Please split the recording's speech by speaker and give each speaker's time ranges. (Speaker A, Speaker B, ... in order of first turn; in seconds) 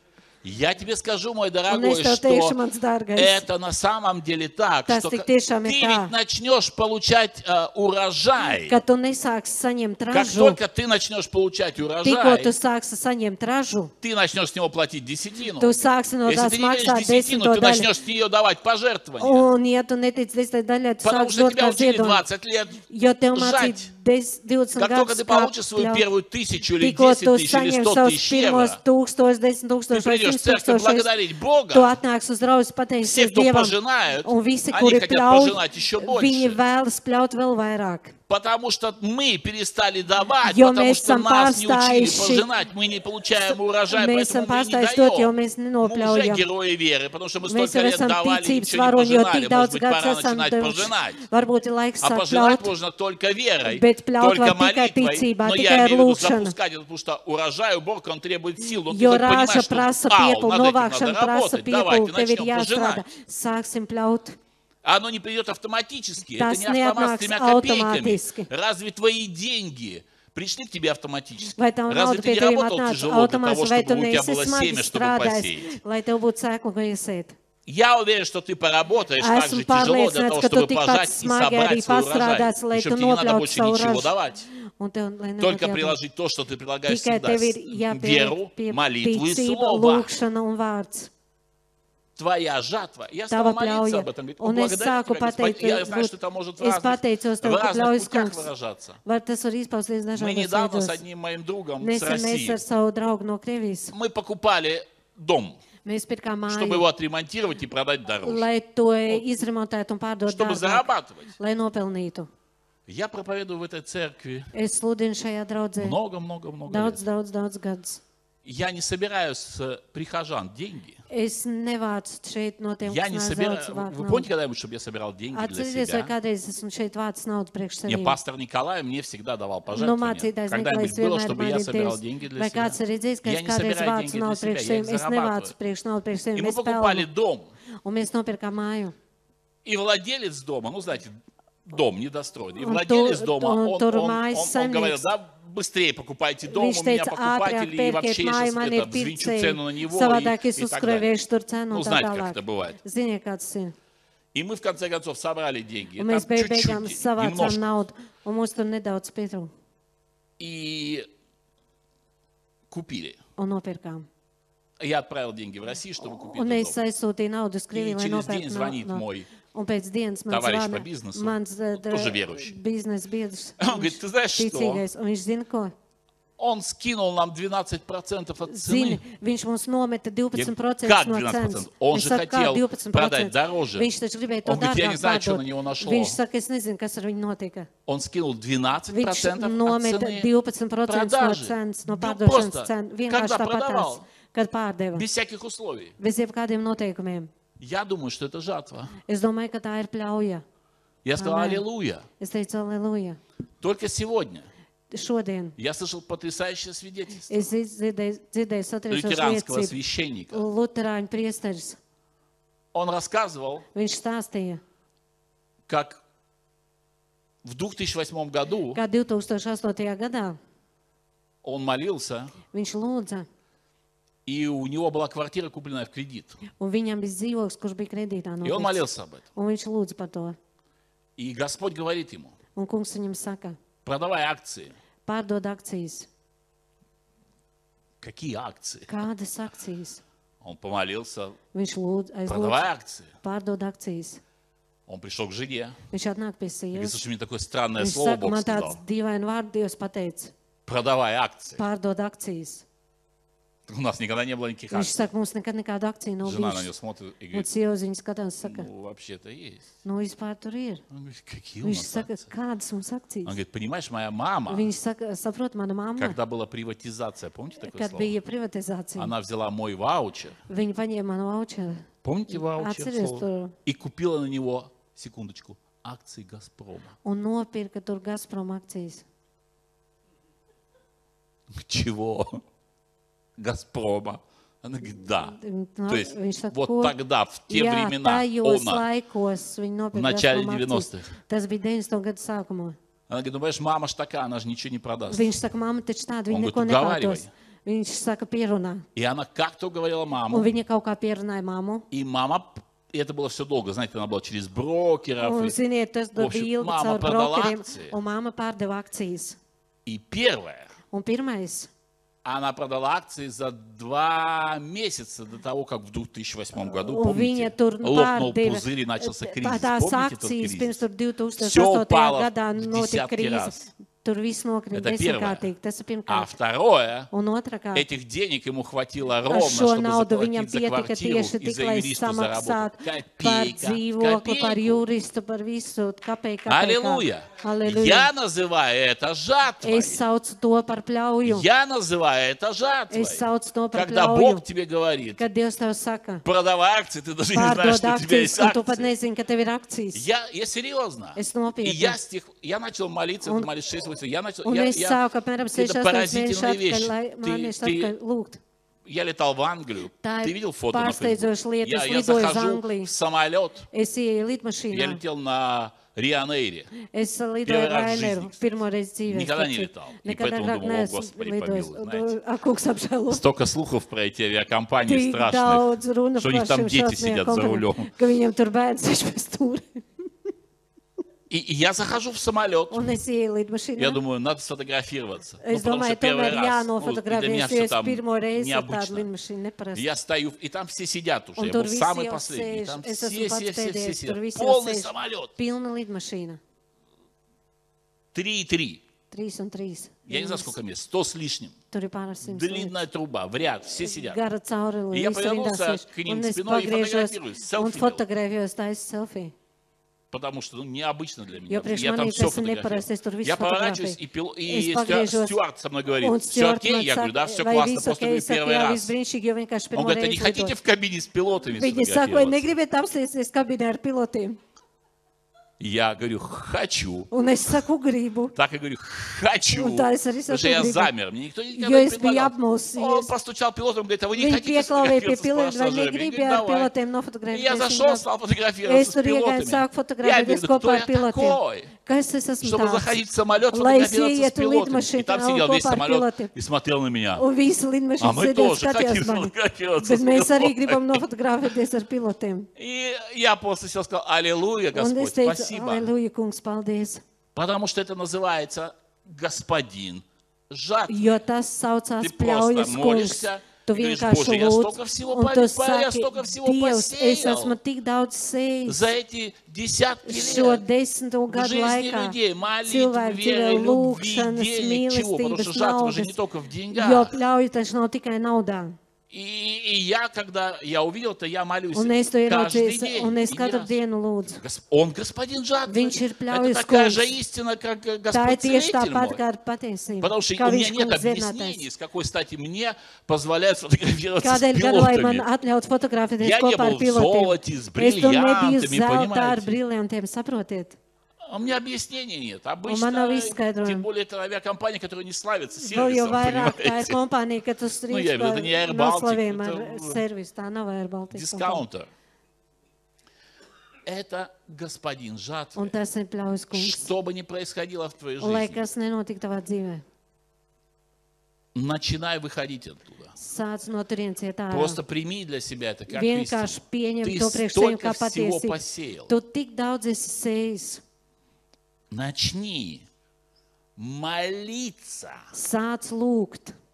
Speaker A: 0.4-2.6, 3.1-8.8, 10.1-12.5, 14.0-19.5, 21.0-22.8, 23.3-23.9, 24.8-28.8, 29.9-32.0, 33.0-36.6, 38.3-51.2, 52.0-63.0, 64.8-75.8, 77.7-84.5, 85.4-90.1, 92.2-99.0, 100.1-102.6, 103.9-105.6, 106.5-108.5, 110.2-111.3, 112.9-114.5, 115.8-117.0, 118.4-121.0, 122.8-126.1, 127.9-135.5, 136.3-137.5, 139.6-141.1, 141.7-151.1, 151.7-152.8, 154.3-157.6, 160.4-161.1, 162.7-163.2, 164.8-166.8, 167.7-169.3, 170.3-172.5, 173.6-174.8, 176.4-179.0, 180.3-183.9, 184.4-186.2, 187.9-190.3, 190.9-194.1, 194.9-195.9, 197.6-198.9, 201.0-202.1, 203.6-204.5, 205.6-207.5, 208.9-210.4, 212.7-213.7, 215.7-216.0, 217.4-218.8, 221.4-222.3, 224.2-226.4, 228.4-229.2, 231.2-232.3, 233.8-234.7, 238.0-239.0, 240.4-241.4, 242.3-243.1, 244.9-245.8, 246.7-248.8, 250.7-251.6, 253.7-255.1, 256.2-257.5, 258.4-259.7, 260.9-262.2, 263.2-264.7, 266.0-268.1, 268.9-270.4, 272.0-276.9, 281.5-282.4, 283.4-285.4, 285.9-288.9, 289.9-291.1, 293.1-295.3, 296.3-297.3, 298.9-300.5, 301.9-305.6, 306.1-307.9, 309.9-310.7, 312.2-320.8, 321.4-323.6, 324.7-325.5, 326.1-327.1, 327.7-334.8, 336.4-340.0, 341.2-345.2, 346.2-348.9, 349.9-355.0, 355.5-357.9, 358.8-363.7, 364.7-366.7, 367.4-368.4, 369.1-372.1, 373.1-377.9, 381.3-382.8, 383.8-389.1, 389.7-395.3, 398.1-398.8, 400.1-401.6, 402.2-404.2, 404.9-408.0, 410.1-418.9, 419.7-422.5, 425.6-427.1, 428.3-436.7, 437.3-441.7, 442.4-447.2, 448.0-451.0, 452.6-455.9, 457.3-461.2, 462.0-467.6, 468.6-470.6, 471.3-477.1, 479.1-483.8, 484.3-489.2, 490.0-495.2, 496.2-499.6, 501.3-507.0, 507.9-510.0, 511.1-511.9, 513.8-515.7, 516.5-518.6, 521.5-523.1, 524.5-529.1, 531.9-532.9, 533.8-535.3
Speaker B: 1.7-3.4, 4.9-6.1, 8.6-10.6, 12.0-13.9, 15.6-17.9, 19.2-22.2, 22.9-26.1, 26.8-31.1, 31.7-38.1, 40.4-42.5, 43.9-46.5, 47.5-52.7, 53.6-56.5, 58.9-64.4, 66.3-68.5, 71.5-77.3, 79.2-86.0, 86.9-91.1, 93.3-98.5, 99.0-101.0, 101.8-103.9, 105.8-106.8, 108.2-110.9, 111.4-112.3, 114.5-116.0, 116.7-118.0, 121.1-124.3, 125.3-128.2, 129.7-137.1, 137.8-138.9, 142.6-145.0, 146.5-153.7, 156.0-159.5, 163.4-164.1, 166.3-175.7, 178.4-187.7, 188.9-195.1, 196.0-197.3, 199.0-200.4, 201.2-201.6, 202.2-203.2, 204.9-205.6, 207.3-209.8, 210.3-211.8, 213.7-214.6, 218.7-220.4, 222.5-223.3, 226.6-230.3, 232.5-233.6, 235.1-236.1, 238.9-240.0, 241.5-242.6, 243.2-244.2, 245.9-247.0, 247.8-250.3, 251.6-252.6, 254.7-256.7, 257.3-258.7, 259.8-260.8, 261.6-263.3, 264.5-266.2, 267.6-269.1, 270.5-273.5, 277.0-279.0, 285.2-286.9, 287.5-292.8, 295.1-298.8, 300.3-301.9, 305.2-309.4, 310.9-311.7, 316.8-326.3, 327.1-327.9, 329.3-338.1, 339.6-341.4, 342.9-344.4, 345.2-346.2, 347.3-350.1, 351.1-352.0, 353.2-353.5, 354.4-358.4, 360.0-362.9, 363.7-365.0, 366.7-373.2, 374.9-379.8, 382.7-384.0, 385.4-389.9, 391.4-396.4, 399.1-400.5, 401.7-402.7, 403.8-409.3, 411.5-415.4, 416.0-420.6, 421.5-424.4, 427.1-428.3, 429.5-430.9, 431.5-433.1, 434.1-438.0, 438.6-443.0, 443.5-446.3, 447.2-452.5, 454.7-457.0, 460.9-468.9, 470.0-476.1, 476.7-478.7, 481.7-484.4, 485.6-487.1, 488.1-491.6, 494.2-500.8, 502.6-503.9, 505.6-511.6, 515.5-516.9, 518.2-519.8, 523.1-524.8, 525.9-530.8, 535.3-536.5